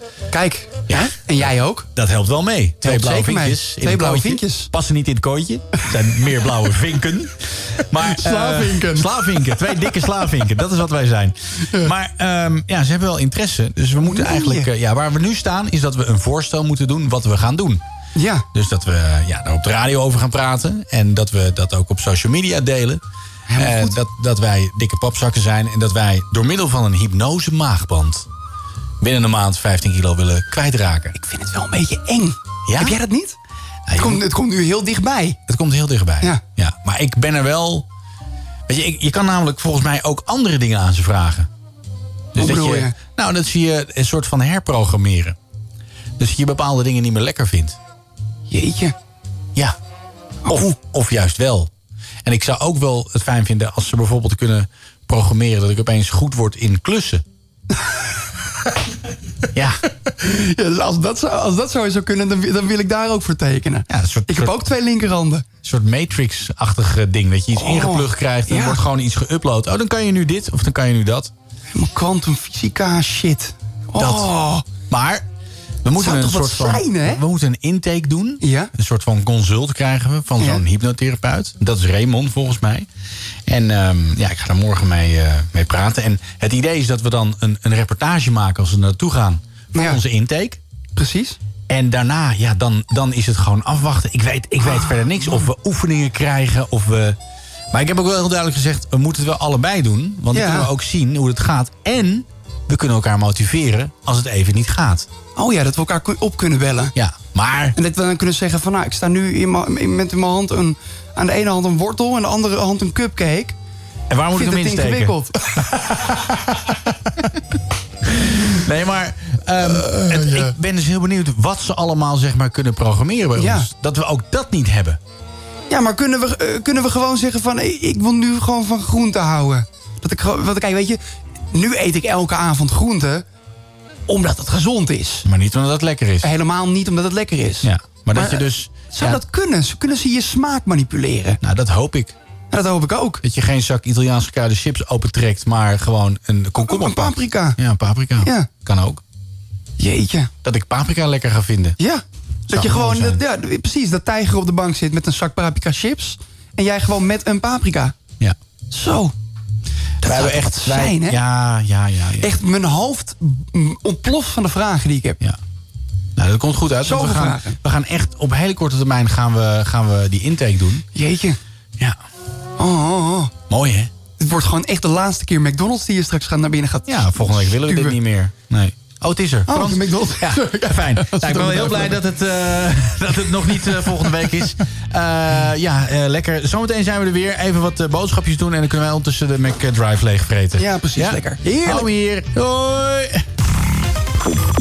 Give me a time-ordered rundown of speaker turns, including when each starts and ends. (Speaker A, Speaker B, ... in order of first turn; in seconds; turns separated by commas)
Speaker A: 0.3-1.9, Speaker B: 0.9-7.3, Speaker A: 2.8-4.7, Speaker B: 7.9-17.8, Speaker A: 8.0-9.7, Speaker A: 14.0-14.7, Speaker A: 18.1-18.4, Speaker B: 18.5-23.0, Speaker A: 23.5-24.0, Speaker B: 23.6-28.2, Speaker B: 29.0-31.1, Speaker A: 31.1-33.4, Speaker B: 32.7-33.0, Speaker B: 33.9-34.2, Speaker A: 34.0-35.4, Speaker B: 35.5-37.9, Speaker B: 38.7-41.5, Speaker B: 42.3-45.4, Speaker A: 42.4-42.9, Speaker B: 46.2-47.8, Speaker A: 48.5-48.9, Speaker A: 50.5-50.7, Speaker B: 50.5-51.7, Speaker B: 52.2-57.2, Speaker A: 60.2-65.5, Speaker B: 63.9-64.6, Speaker B: 65.6-71.3, Speaker A: 67.5-68.8, Speaker A: 71.7-74.7, Speaker B: 74.0-74.3, Speaker B: 74.9-75.2, Speaker B: 75.8-82.9, Speaker A: 76.0-77.2, Speaker A: 78.4-78.7, Speaker B: 83.5-90.6, Speaker A: 89.7-90.0, Speaker A: 91.0-91.4, Speaker B: 91.7-97.2, Speaker A: 94.6-95.5, Speaker B: 97.7-105.1, Speaker A: 100.3-100.7, Speaker A: 105.3-106.9, Speaker B: 106.9-107.8, Speaker A: 107.8-113.5, Speaker B: 114.1-115.2, Speaker A: 114.3-115.4, Speaker B: 118.1-125.0, Speaker A: 119.7-120.5, Speaker A: 123.3-123.7, Speaker A: 125.7-131.0, Speaker A: 131.5-133.2, Speaker A: 134.1-135.2, Speaker B: 135.2-136.3, Speaker A: 136.2-141.4, Speaker B: 137.6-139.2, Speaker B: 141.4-142.1, Speaker A: 142.5-143.2, Speaker B: 143.2-149.0, Speaker A: 146.6-147.6, Speaker A: 148.2-148.5, Speaker A: 149.8-150.3, Speaker B: 150.4-151.8, Speaker A: 151.8-157.9, Speaker B: 152.5-153.2, Speaker A: 158.7-159.1, Speaker A: 160.0-161.2, Speaker B: 160.0-162.3, Speaker A: 162.2-165.2, Speaker B: 166.2-170.8, Speaker A: 166.8-167.6, Speaker A: 170.9-171.4, Speaker A: 172.6-173.3, Speaker B: 173.5-173.9, Speaker A: 174.2-178.0, Speaker B: 176.9-193.2, Speaker A: 179.5-182.0, Speaker A: 190.6-191.9